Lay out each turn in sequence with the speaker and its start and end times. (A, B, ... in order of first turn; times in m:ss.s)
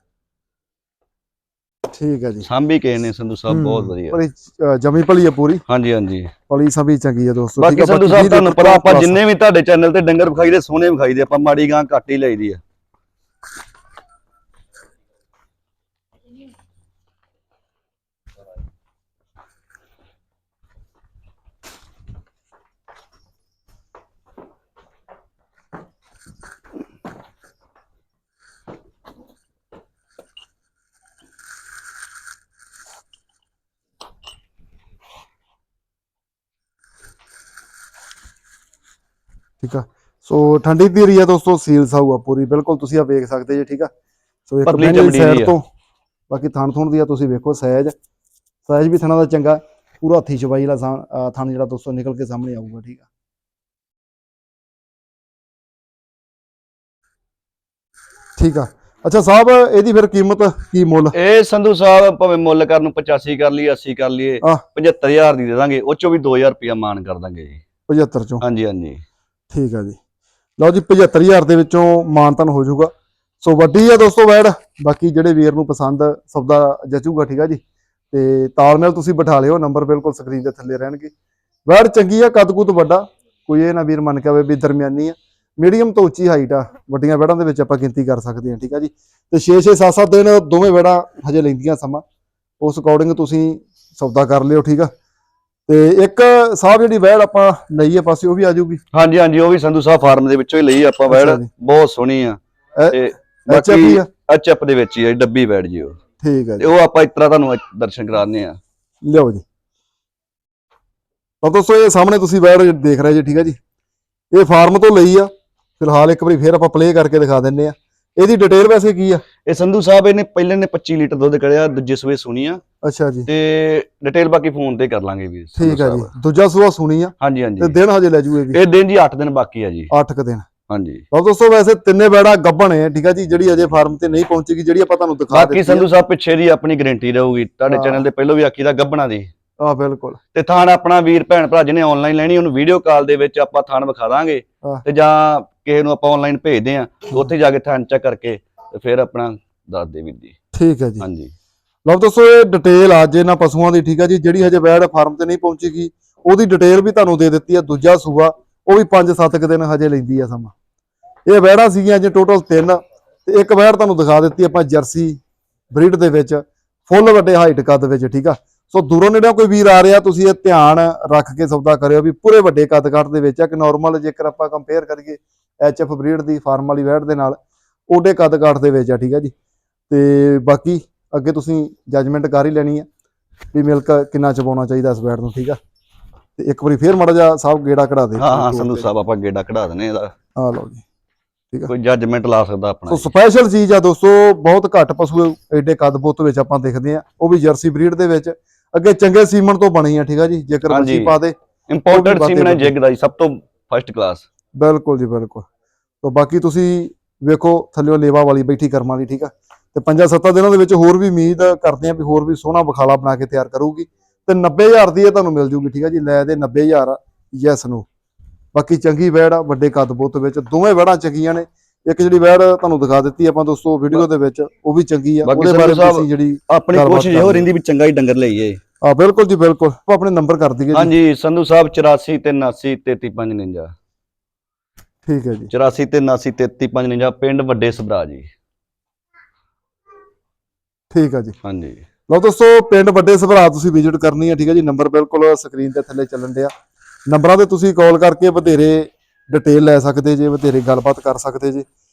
0:01.9-0:02.5 A
0:02.4-0:04.2 B
0:03.5-0:05.6 A
0:05.7-0:06.3 B
0:06.5-0:09.2 A
0:07.6-0:12.6 B
0:39.6-0:43.9 A
0:44.5-0:45.6 A
0:44.6-0:45.5 B
0:46.3-0:47.9 A
0:48.6-0:53.0 A
0:58.4-1:01.2 A
1:01.1-1:07.6 B
1:07.9-1:08.4 A
1:08.4-1:09.0 B
1:09.5-1:10.0 A
1:10.6-1:17.6 A
1:18.1-1:21.1 A
1:21.7-1:32.0 A
1:32.6-1:34.9 A
1:35.7-1:38.8 A
1:38.9-1:42.4 B
1:41.1-1:41.5 A
1:42.8-1:44.1 A
1:42.9-1:46.0 B
1:46.2-1:46.7 A
1:46.6-1:48.6 B
1:49.0-1:49.4 A
1:51.4-1:53.6 A
1:54.3-1:59.2 A
1:59.4-2:02.6 B
2:02.8-2:03.3 A
2:03.3-2:06.1 B
2:05.6-2:08.6 A
2:07.2-2:07.7 B
2:08.5-2:09.9 B
2:09.9-2:10.4 A
2:10.7-2:11.0 B
2:11.1-2:15.9 A
2:15.3-2:19.3 B
2:17.7-2:18.0 A
2:19.6-2:20.2 A
2:20.3-2:30.3 B
2:30.5-2:31.0 A
2:31.0-2:31.3 B
2:31.8-2:40.5 A
2:41.2-2:45.2 A
2:45.7-2:57.4 A
2:57.9-2:59.3 A
2:59.9-3:02.8 A
3:03.5-3:05.6 A
3:06.4-3:08.9 A
3:08.2-3:10.1 B
3:10.4-3:10.8 A
3:11.7-3:13.1 B
3:12.9-3:21.3 A
3:20.7-3:21.2 B
3:21.7-3:24.2 B
3:21.9-3:22.7 A
3:24.6-3:25.4 A
3:26.0-3:37.8 A
3:38.5-3:47.5 A
3:45.2-3:48.6 B
3:48.8-3:50.9 A
3:50.7-3:53.7 B
3:55.0-3:55.5 A
3:55.5-3:58.3 B
4:00.9-4:01.3 A
4:01.4-4:01.8 B
4:02.1-4:06.5 A
4:07.1-4:11.6 A